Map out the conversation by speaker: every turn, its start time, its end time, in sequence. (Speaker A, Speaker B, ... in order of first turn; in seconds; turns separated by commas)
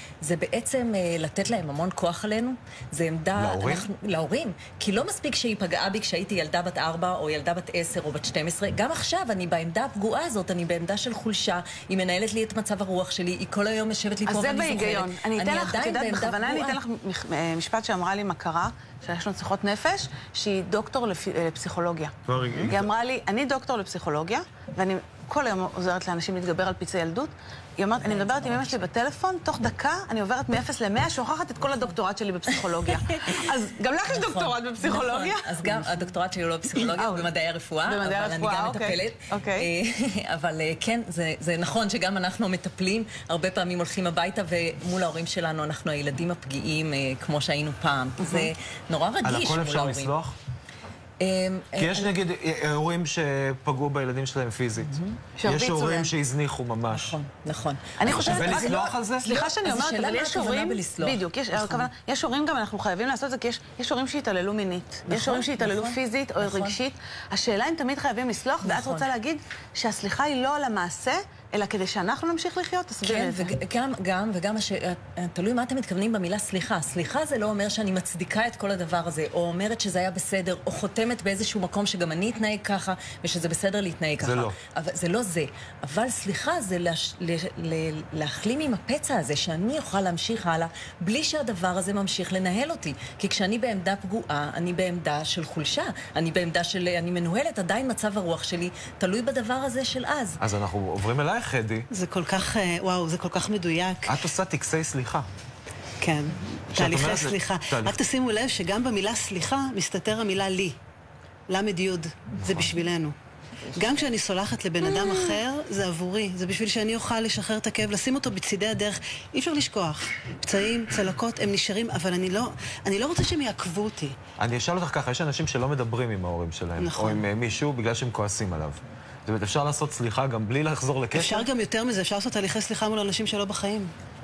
Speaker A: 0.2-16.8, Speaker B: 3.3-3.9, Speaker C: 14.2-22.1, Speaker B: 22.2-22.9, Speaker C: 22.7-36.0, Speaker A: 28.0-28.9, Speaker A: 34.0-50.2, Speaker C: 36.8-37.3, Speaker C: 37.8-39.7, Speaker C: 48.2-48.5, Speaker B: 49.2-50.4, Speaker A: 51.2-52.1, Speaker B: 51.8-57.2, Speaker A: 54.8-55.1, Speaker C: 55.4-56.1, Speaker A: 56.9-58.7, Speaker C: 58.0-73.5, Speaker B: 58.0-59.3, Speaker A: 59.2-61.9, Speaker A: 65.1-66.8, Speaker A: 68.6-69.1, Speaker A: 73.0-100.4, Speaker B: 84.2-84.5, Speaker B: 100.4-101.9, Speaker D: 101.9-104.1, Speaker B: 104.1-105.3, Speaker D: 106.0-110.8, Speaker B: 106.7-108.0, Speaker D: 111.5-113.1, Speaker D: 113.7-124.2, Speaker C: 115.0-115.3, Speaker B: 124.4-131.4, Speaker D: 126.8-127.2, Speaker D: 131.1-133.9